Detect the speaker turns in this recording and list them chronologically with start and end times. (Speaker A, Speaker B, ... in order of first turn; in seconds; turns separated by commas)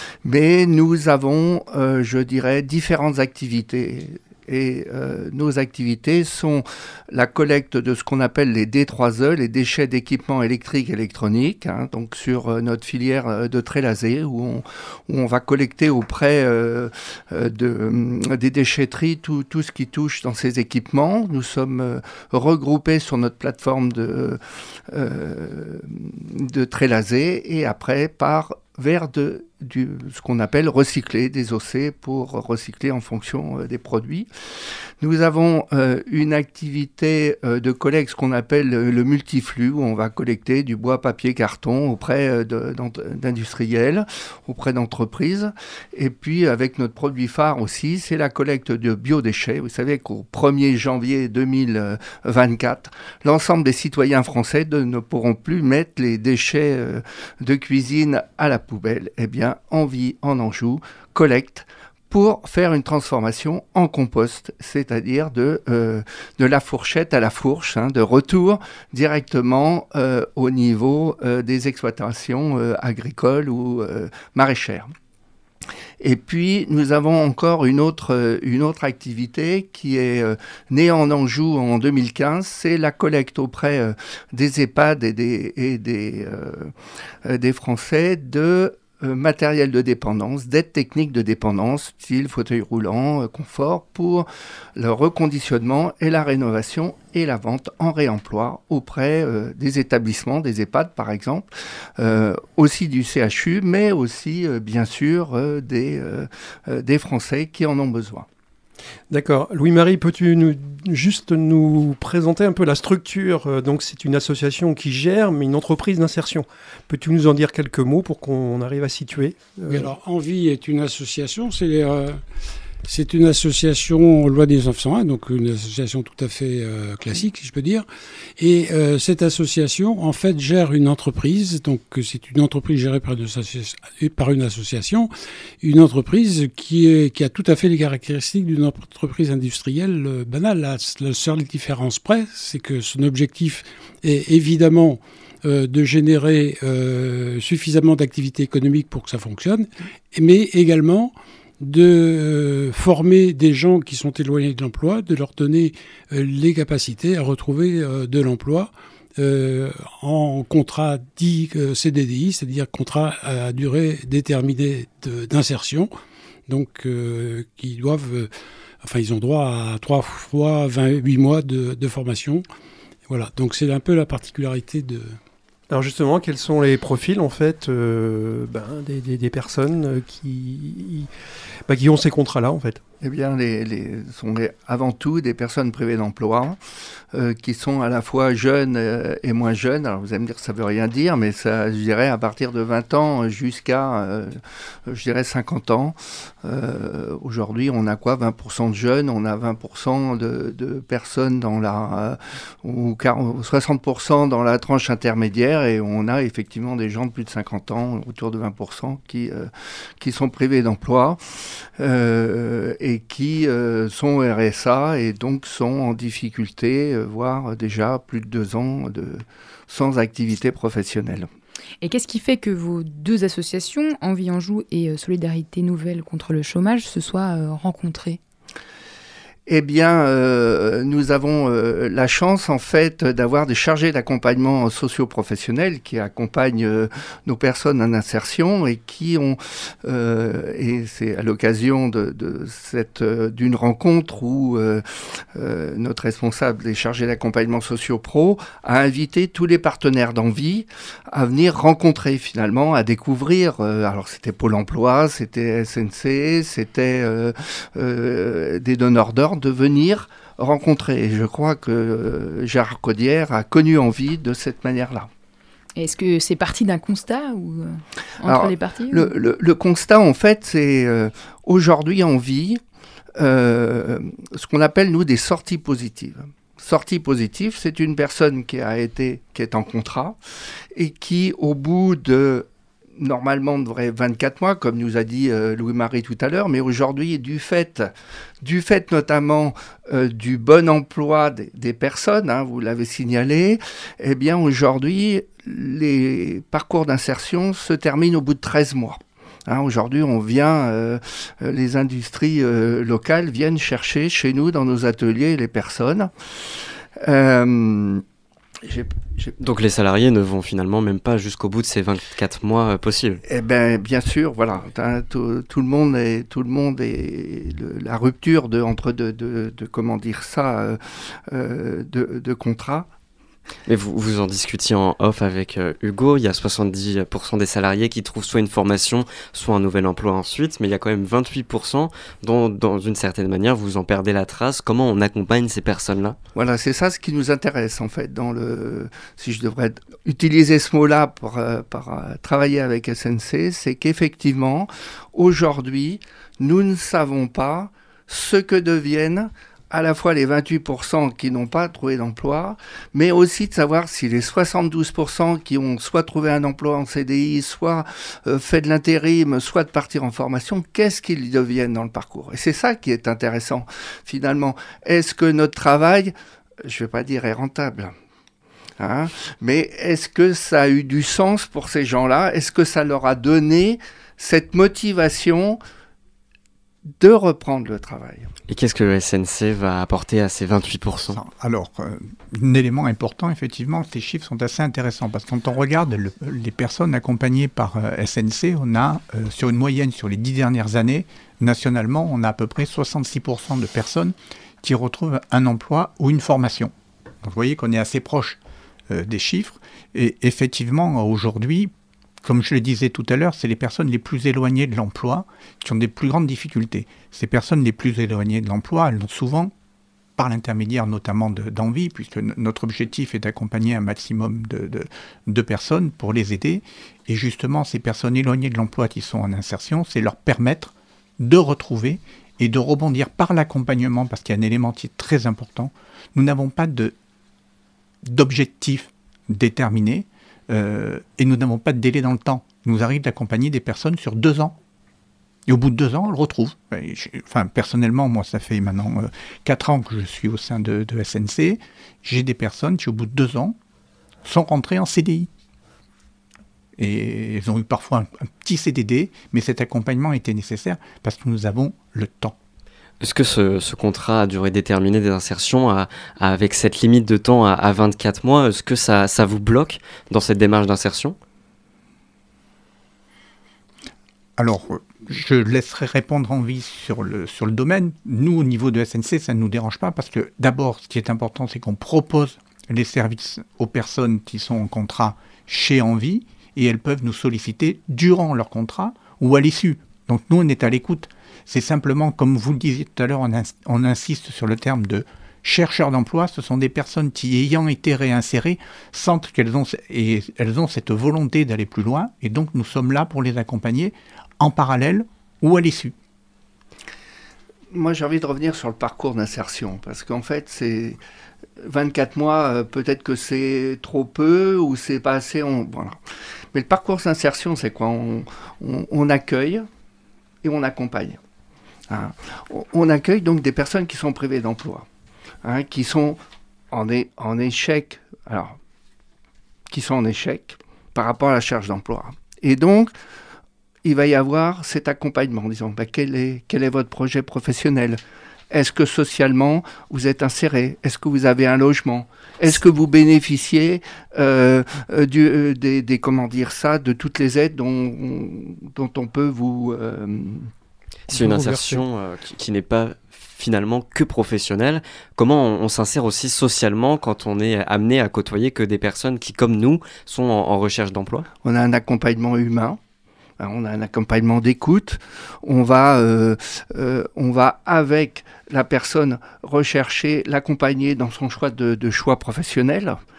Speaker A: 0.2-34.3, Speaker A: 35.0-74.9, Speaker A: 76.0-86.7, Speaker A: 87.2-101.5, Speaker A: 102.0-108.2, Speaker B: 109.1-119.9, Speaker C: 119.7-122.2, Speaker C: 122.8-127.9, Speaker C: 128.4-135.1, Speaker C: 135.6-165.9, Speaker C: 166.5-172.4, Speaker C: 173.1-175.2, Speaker B: 175.7-181.1, Speaker B: 181.7-182.8, Speaker A: 183.0-186.6, Speaker A: 187.1-211.2, Speaker A: 211.8-221.3, Speaker D: 221.8-228.2, Speaker A: 229.5-265.1, Speaker D: 265.8-269.1, Speaker A: 268.2-272.6, Speaker A: 273.2-280.2, Speaker A: 280.7-282.4, Speaker A: 283.0-287.9, Speaker A: 288.4-306.1, Speaker A: 307.0-308.0, Speaker A: 308.6-309.3, Speaker E: 309.4-313.2, Speaker A: 313.3-322.9, Speaker E: 323.7-336.2, Speaker A: 336.3-366.1, Speaker A: 366.6-367.9, Speaker A: 368.8-375.6, Speaker A: 377.0-378.3, Speaker E: 378.5-381.2, Speaker F: 381.1-401.7, Speaker F: 402.2-409.5, Speaker F: 410.2-426.9, Speaker F: 428.0-434.6, Speaker F: 435.5-443.6, Speaker F: 444.2-445.3, Speaker F: 446.8-452.3, Speaker E: 453.0-461.1, Speaker F: 464.4-495.9, Speaker A: 497.7-501.0, Speaker A: 501.6-506.0, Speaker A: 506.5-509.7, Speaker A: 510.4-511.2, Speaker A: 511.9-514.9, Speaker A: 515.4-516.2, Speaker A: 516.7-518.5, Speaker A: 519.7-522.9, Speaker A: 523.8-528.0, Speaker A: 528.5-540.5, Speaker E: 541.1-551.2, Speaker B: 541.1-541.8, Speaker A: 551.4-552.8, Speaker A: 553.4-563.0